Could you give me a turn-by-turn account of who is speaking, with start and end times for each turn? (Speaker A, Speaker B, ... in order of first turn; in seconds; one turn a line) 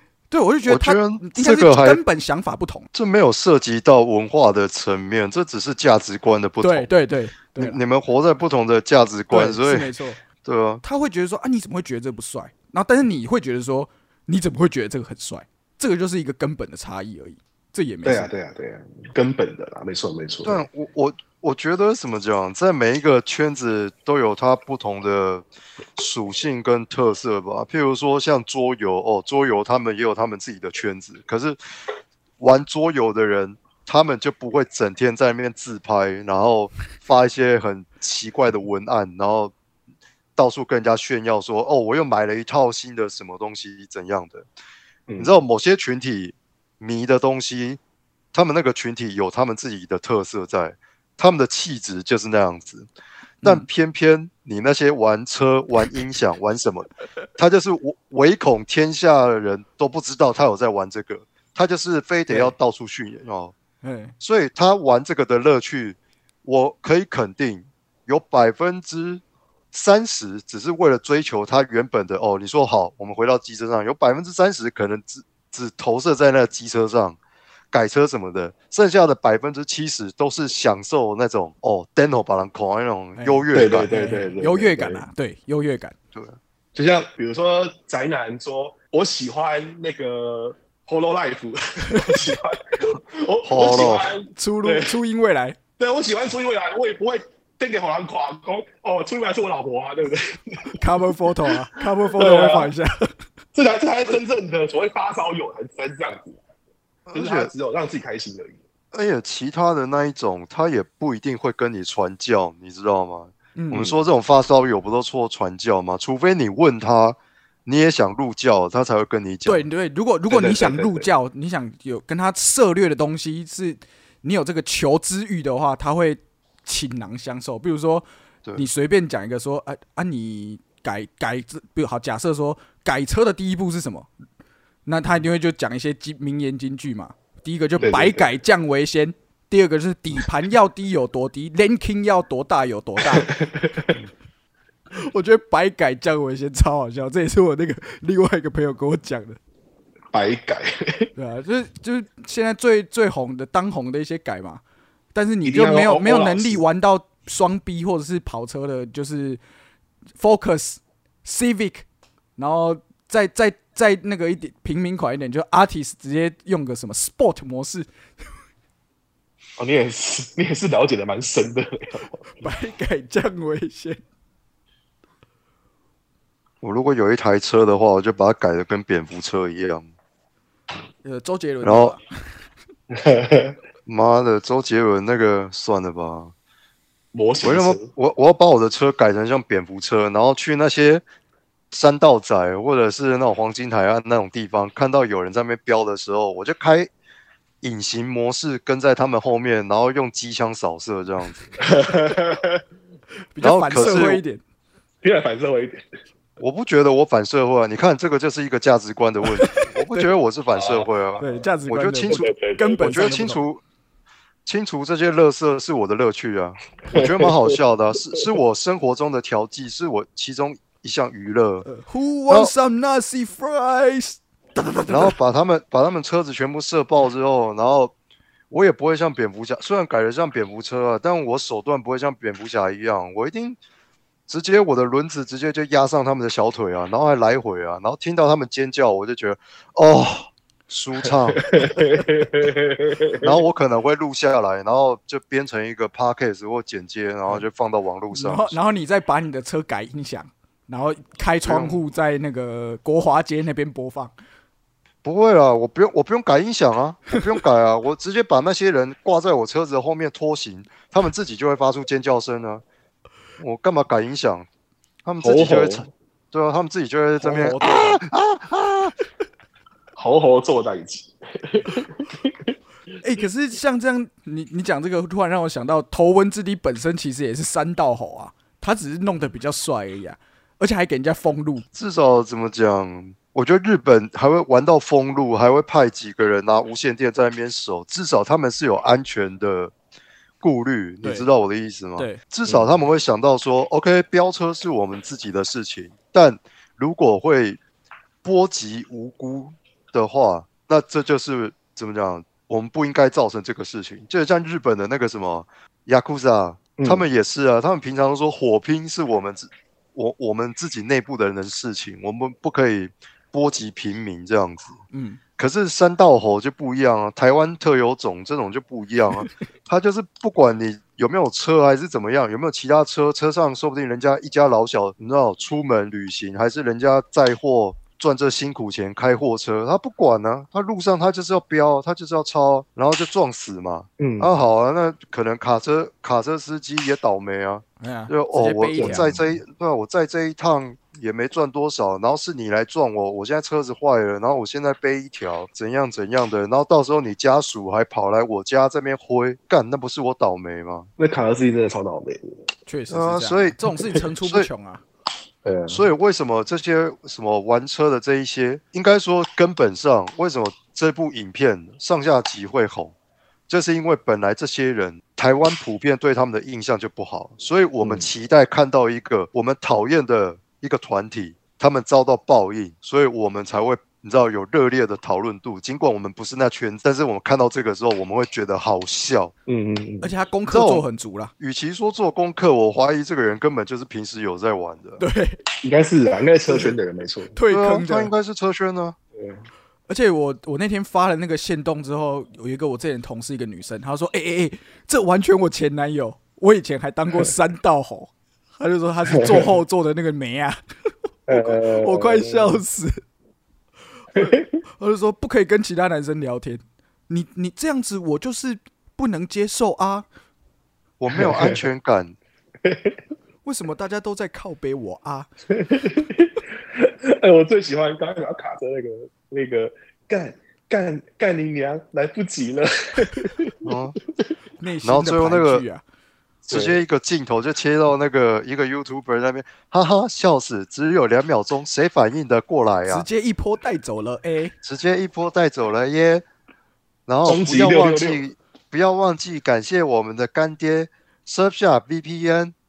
Speaker A: 0.3-2.9
Speaker B: 0.7-2.0
Speaker B: 2.9-6.9
Speaker A: 6.6-7.8
Speaker B: 7.6-9.9
Speaker A: 9.3-10.2
Speaker B: 10.4-10.8
Speaker A: 10.8-18.3
Speaker C: 18.1-20.6
Speaker B: 20.4-31.6
Speaker B: 32.4-39.5
Speaker B: 40.4-44.5
Speaker C: 45.1-45.4
Speaker B: 45.2-47.8
Speaker B: 48.3-52.9
Speaker B: 53.4-63.5
Speaker A: 63.8-64.2
Speaker B: 64.2-77.2
Speaker B: 77.7-83.9
Speaker A: 83.2-86.0
Speaker C: 83.5-85.0
Speaker C: 86.8-95.0
Speaker A: 91.9-92.2
Speaker B: 93.5-94.1
Speaker A: 94.3-95.6
Speaker C: 95.8-100.8
Speaker A: 100.8-103.1
Speaker C: 101.8-102.7
Speaker C: 103.5-106.4
Speaker B: 107.1-107.5
Speaker C: 107.1-108.6
Speaker B: 108.9-119.7
Speaker A: 113.6-114.0
Speaker A: 119.5-134.1
Speaker C: 120.3-121.1
Speaker A: 134.9-143.3
Speaker C: 137.8-138.3
Speaker C: 143.2-144.0
Speaker A: 144.9-149.4
Speaker C: 150.1-151.1
Speaker A: 151.2-154.6
Speaker A: 155.2-159.4
Speaker C: 155.4-156.6
Speaker A: 160.2-161.8
Speaker A: 162.4-167.9
Speaker C: 169.6-172.2
Speaker A: 172.4-174.0
Speaker B: 176.6-179.9
Speaker A: 181.0-182.3
Speaker B: 181.6-182.0
Speaker C: 182.9-183.6
Speaker B: 183.9-186.3
Speaker C: 187.1-187.9
Speaker B: 187.4-191.0
Speaker B: 191.7-196.9
Speaker B: 197.6-201.6
Speaker C: 201.6-202.6
Speaker A: 203.3-204.4
Speaker B: 203.4-204.2
Speaker C: 203.8-204.1
Speaker C: 205.0-205.8
Speaker B: 206.4-213.6
Speaker A: 209.4-210.1
Speaker C: 210.5-211.5
Speaker A: 211.2-213.4
Speaker C: 212.1-213.1
Speaker B: 214.5-221.7
Speaker C: 216.9-217.6
Speaker A: 221.7-225.1
Speaker B: 224.9-227.9
Speaker B: 228.5-233.6
Speaker B: 234.3-241.7
Speaker C: 241.3-243.4
Speaker B: 243.2-248.6
Speaker A: 248.1-254.1
Speaker B: 251.4-251.8
Speaker B: 255.0-262.6
Speaker B: 263.4-264.5
Speaker B: 265.1-268.9
Speaker C: 265.2-265.9
Speaker A: 267.2-268.0
Speaker C: 270.0-272.5
Speaker A: 273.0-281.7
Speaker B: 281.7-289.7
Speaker B: 290.4-297.6
Speaker A: 291.0-291.3
Speaker B: 298.2-314.8
Speaker C: 306.8-307.0
Speaker A: 314.9-315.2
Speaker B: 315.4-350.9
Speaker C: 334.0-334.3
Speaker A: 337.8-339.2
Speaker C: 338.8-339.1
Speaker C: 351.0-352.5
Speaker A: 352.7-354.8
Speaker B: 352.9-353.6
Speaker B: 354.2-354.5
Speaker C: 355.4-355.8
Speaker B: 355.7-362.9
Speaker B: 363.5-379.3
Speaker C: 367.8-368.1
Speaker C: 379.5-380.1
Speaker A: 380.0-381.3
Speaker B: 380.5-380.9
Speaker B: 381.4-385.0
Speaker A: 385.0-385.4
Speaker C: 385.6-387.4
Speaker A: 387.4-388.1
Speaker B: 387.5-389.0
Speaker C: 389.2-389.4
Speaker A: 389.9-400.6
Speaker C: 399.2-399.4
Speaker A: 401.3-403.0
Speaker C: 401.3-402.6
Speaker A: 404.1-410.1
Speaker C: 404.2-404.5
Speaker B: 411.0-412.2
Speaker C: 411.1-411.7
Speaker C: 412.6-413.0
Speaker A: 413.4-415.3
Speaker C: 415.5-424.2
Speaker B: 423.6-424.0
Speaker A: 424.6-425.8
Speaker B: 424.8-425.6
Speaker C: 426.5-426.8
Speaker B: 426.5-433.1
Speaker A: 432.9-434.6
Speaker B: 434.6-436.2
Speaker B: 437.1-442.5
Speaker C: 437.2-438.2